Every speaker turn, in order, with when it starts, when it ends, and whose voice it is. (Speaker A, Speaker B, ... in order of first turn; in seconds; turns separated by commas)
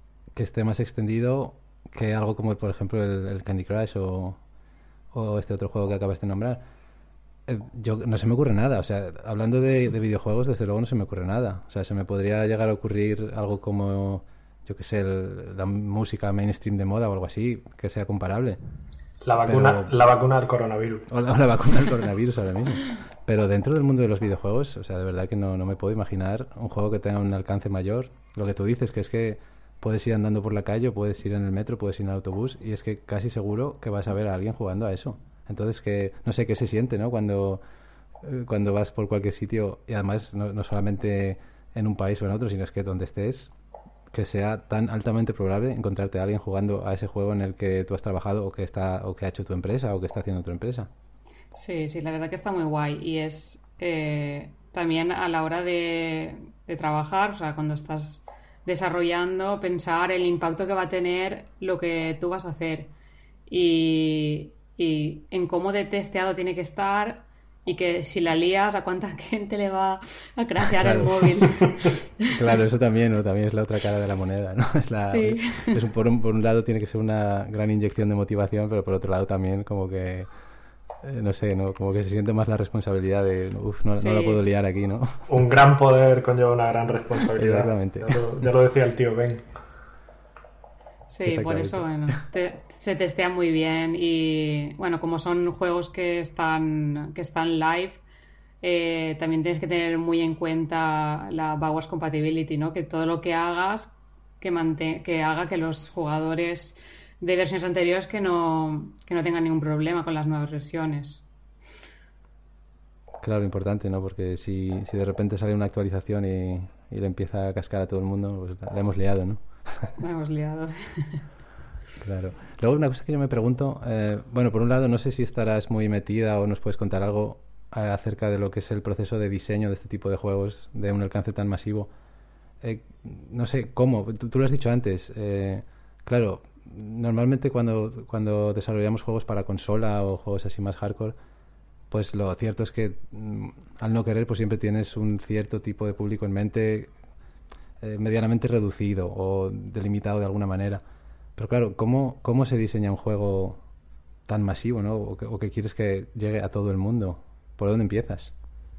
Speaker A: 0.3-4.4, Speaker A: 5.1-6.6, Speaker A: 7.5-18.6, Speaker B: 19.2-21.1, Speaker A: 19.4-19.9, Speaker A: 21.1-37.6, Speaker A: 38.2-43.5, Speaker A: 44.1-50.9, Speaker C: 51.5-62.9, Speaker C: 63.5-72.3, Speaker A: 70.8-71.3, Speaker A: 72.3-80.3, Speaker C: 75.0-75.8, Speaker A: 81.0-85.3, Speaker C: 83.9-84.4, Speaker B: 85.3-89.5, Speaker A: 87.3-88.2, Speaker C: 91.1-98.0, Speaker A: 91.2-91.8, Speaker C: 98.6-111.2, Speaker A: 113.2-119.9, Speaker C: 120.0-121.2, Speaker A: 122.0-131.9, Speaker A: 132.6-141.2, Speaker A: 141.9-146.9, Speaker A: 147.8-150.8, Speaker A: 151.4-153.6, Speaker A: 154.3-158.3